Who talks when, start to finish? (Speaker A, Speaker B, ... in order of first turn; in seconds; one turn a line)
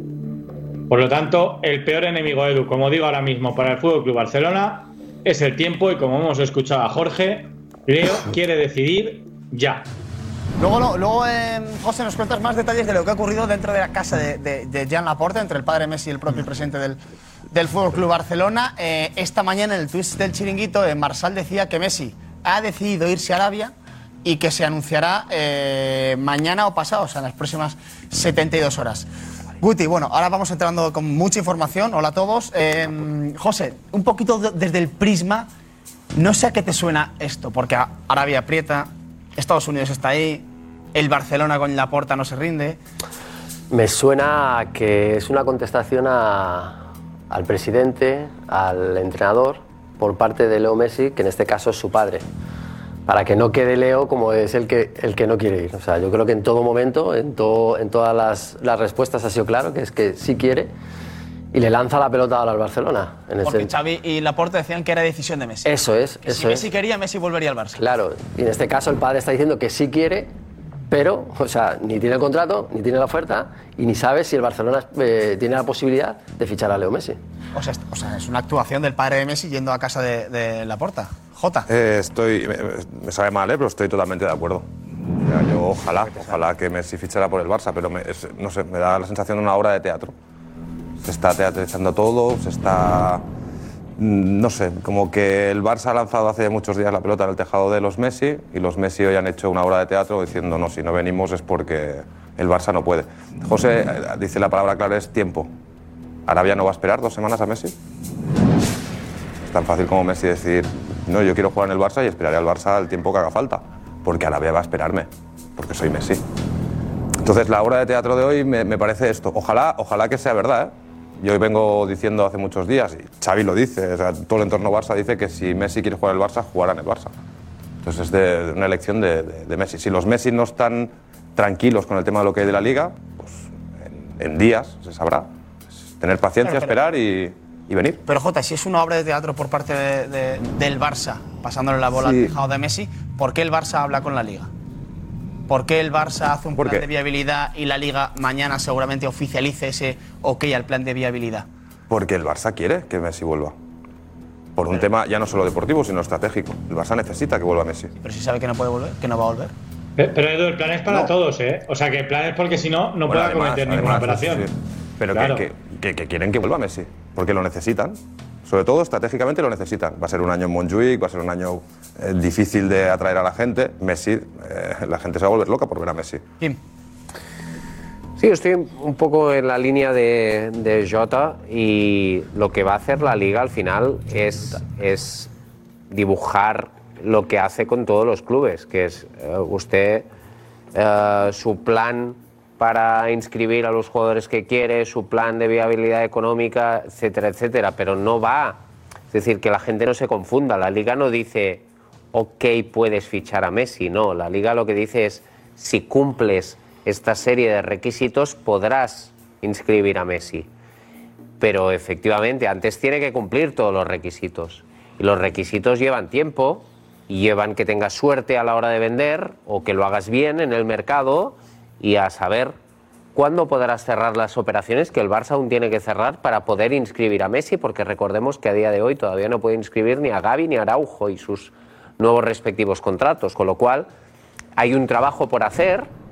Speaker A: 0.9-9.9
Speaker B: 10.6-17.0
Speaker B: 17.5-23.7
Speaker B: 24.2-29.1
Speaker B: 29.6-35.5
Speaker B: 36.1-42.8
Speaker C: 43.7-52.2
Speaker C: 53.1-60.7
Speaker C: 61.5-63.7
Speaker B: 63.4-65.7
Speaker C: 65.6-66.7
Speaker B: 66.2-67.8
Speaker C: 67.8-70.3
Speaker C: 70.9-77.2
Speaker B: 77.5-81.7
Speaker D: 81.7-90.1
Speaker D: 91.0-93.2
Speaker D: 94.0-105.5
Speaker D: 106.3-107.7
Speaker D: 109.4-116.2
Speaker D: 117.2-127.1
Speaker D: 127.8-135.3
Speaker D: 136.0-138.0
Speaker B: 136.4-136.7
Speaker B: 138.0-144.5
Speaker D: 141.9-142.3
Speaker B: 145.5-151.4
Speaker D: 146.6-146.8
Speaker D: 151.9-153.5
Speaker D: 154.6-157.9
Speaker B: 158.0-159.5
Speaker A: 160.0-164.5
Speaker D: 163.1-176.2
Speaker A: 165.1-165.4
Speaker E: 178.2-185.3
Speaker E: 185.9-190.1
Speaker E: 190.7-198.6
Speaker E: 199.1-210.5
Speaker E: 211.4-222.5
Speaker E: 223.1-233.9
Speaker E: 234.6-235.9